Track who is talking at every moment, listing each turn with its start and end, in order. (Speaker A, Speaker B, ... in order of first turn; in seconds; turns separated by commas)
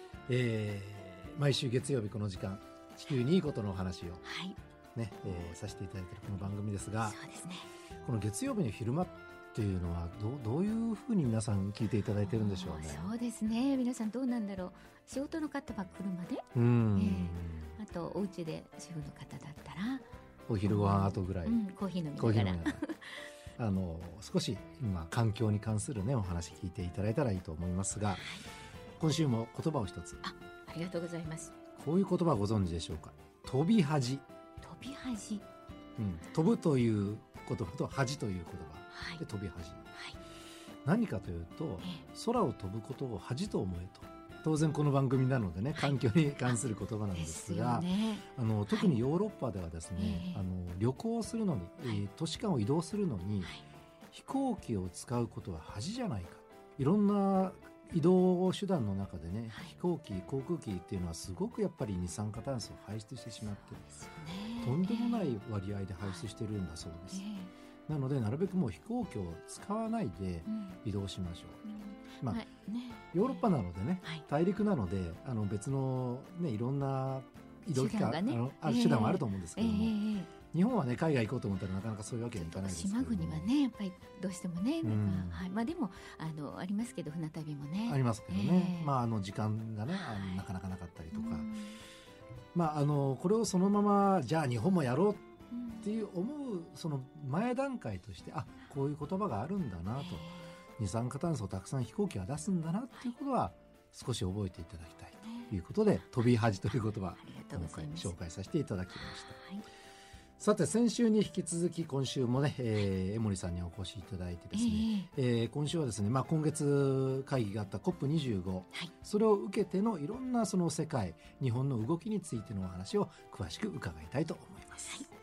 Speaker A: 0.3-4.2, Speaker B: 4.2-4.6, Speaker A: 5.0-7.2, Speaker B: 7.0-7.7, Speaker A: 8.0-13.1, Speaker B: 12.3-20.1, Speaker A: 16.5-17.8, Speaker A: 20.5-21.6, Speaker B: 20.6-23.3, Speaker A: 22.2-22.8, Speaker A: 23.6-28.4, Speaker B: 28.2-28.4, Speaker A: 29.0-30.2, Speaker B: 30.2-31.5, Speaker A: 31.8-34.2, Speaker B: 34.6-35.5, Speaker A: 36.0-39.9, Speaker B: 38.9-39.2, Speaker A: 40.9-53.5, Speaker B: 45.8-46.6, Speaker B: 47.1-49.0, Speaker B: 50.0-50.4, Speaker A: 54.1-63.8, Speaker B: 63.6-65.4, Speaker A: 64.6-67.2, Speaker B: 66.0-66.3, Speaker B: 67.1-67.5, Speaker A: 67.9-71.6, Speaker B: 70.5-70.8, Speaker B: 71.6-73.4, Speaker A: 72.2-72.5, Speaker A: 73.1-80.0, Speaker B: 77.7-80.3, Speaker A: 80.5-83.5, Speaker B: 82.3-88.9, Speaker A: 84.8-85.4, Speaker A: 87.9-91.5, Speaker B: 89.9-90.5, Speaker B: 91.1-91.8, Speaker A: 92.5-95.2, Speaker B: 95.5-96.0, Speaker A: 95.8-109.4, Speaker B: 100.0-100.5, Speaker B: 105.2-105.5, Speaker B: 107.2-108.1, Speaker B: 109.0-109.7, Speaker A: 110.4-125.1, Speaker B: 114.5-115.1